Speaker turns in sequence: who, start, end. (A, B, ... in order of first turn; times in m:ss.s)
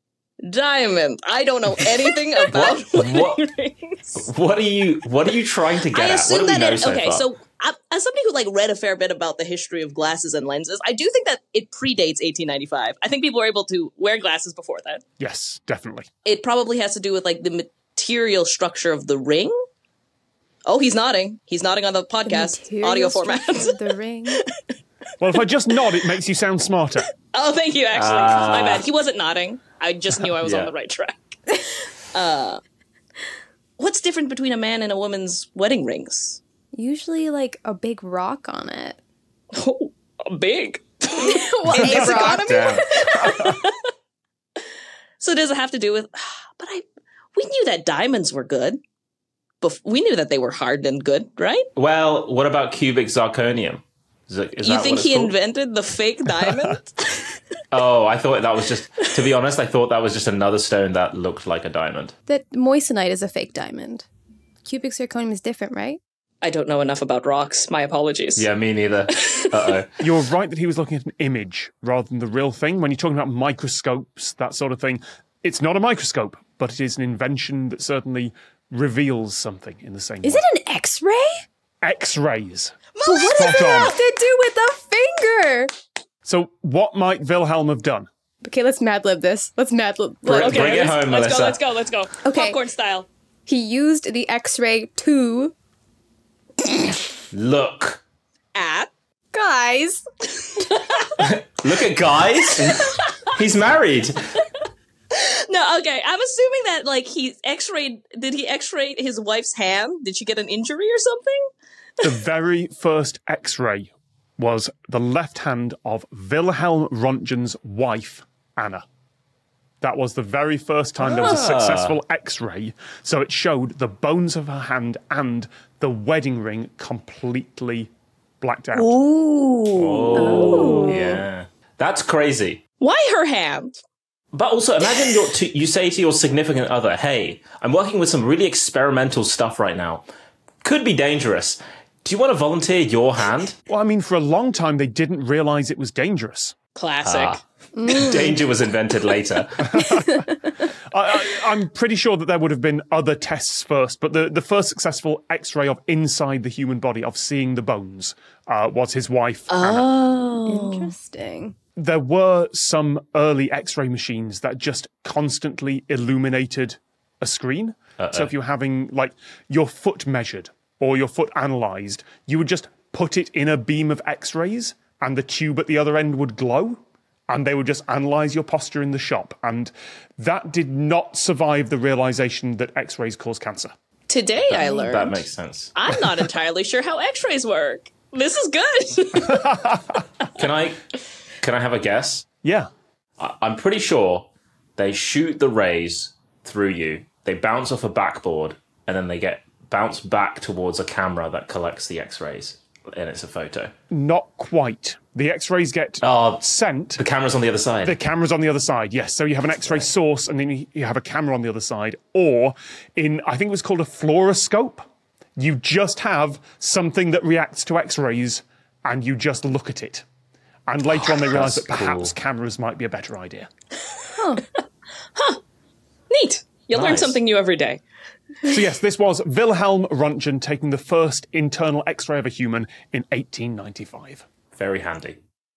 0:00.4-0:04.2 A
0:02.5-0:03.4 B
0:04.2-0:07.3 B
0:05.9-0:15.0 A
0:15.2-0:16.1 C
0:16.2-0:19.6 A
0:20.7-0:24.4 A
0:22.3-0:24.4 D
0:25.2-0:27.1 C
0:27.3-0:32.6 A
0:28.0-0:28.8 B
0:30.4-0:30.7 B
0:33.8-0:36.4 A
0:36.7-0:39.0 D
0:39.5-0:43.8 A
0:41.2-0:43.6 D
0:42.2-0:43.0 B
0:45.2-0:48.8 A
0:49.6-0:51.7 A
0:51.8-0:55.3 B
0:54.6-0:57.1 A
0:57.7-1:02.2 B
1:02.3-1:04.1 D
1:04.6-1:06.0 D
1:06.4-1:08.5 A
1:08.4-1:09.9 B
1:09.2-1:09.8 A
1:10.0-1:20.4 C
1:20.2-1:21.3 D
1:21.8-1:24.0 C
1:23.0-1:24.0 A
1:23.0-1:25.7 D
1:26.2-1:28.1 C
1:28.4-1:30.9 D
1:30.2-1:31.6 B
1:30.3-1:33.1 A
1:32.2-1:32.6 D
1:33.5-1:35.6 D
1:37.3-1:38.0 B
1:38.6-1:38.9 A
1:39.3-1:40.7 D
1:40.6-1:41.2 A
1:41.2-1:44.4 B
1:42.5-1:43.1 A
1:45.1-1:51.4 A
1:52.0-1:58.9 C
1:59.8-2:09.0 C
2:01.0-2:02.0 B
2:08.7-2:11.2 A
2:09.7-2:12.6 B
2:10.2-2:11.1 D
2:12.8-2:13.8 A
2:14.3-2:20.1 B
2:20.6-2:23.6 B
2:23.7-2:26.6 C
2:26.8-2:27.4 A
2:27.0-2:29.9 B
2:27.8-2:28.4 D
2:29.6-2:30.2 C
2:29.9-2:30.2 D
2:30.9-2:39.9 C
2:39.5-2:41.0 A
2:40.5-2:41.6 D
2:41.8-3:03.7 C
2:48.0-2:48.3 B
3:04.1-3:05.2 A
3:04.5-3:05.7 B
3:04.6-3:04.9 D
3:05.8-3:09.5 A
3:09.2-3:10.0 C
3:10.4-3:10.8 B
3:11.4-3:12.2 B
3:12.4-3:12.7 C
3:13.2-3:23.7 B
3:23.9-3:27.0 C
3:26.0-3:26.4 B
3:27.0-3:28.0 B
3:27.8-3:34.9 C
3:29.6-3:29.9 B
3:35.4-3:40.1 C
3:40.7-3:43.5 C
3:40.9-3:42.1 B
3:44.0-3:44.6 A
3:44.2-3:44.4 D
3:45.2-3:45.4 A
3:46.1-3:47.8 A
3:46.7-3:47.2 B
3:48.4-3:54.3 C
3:54.5-3:55.2 B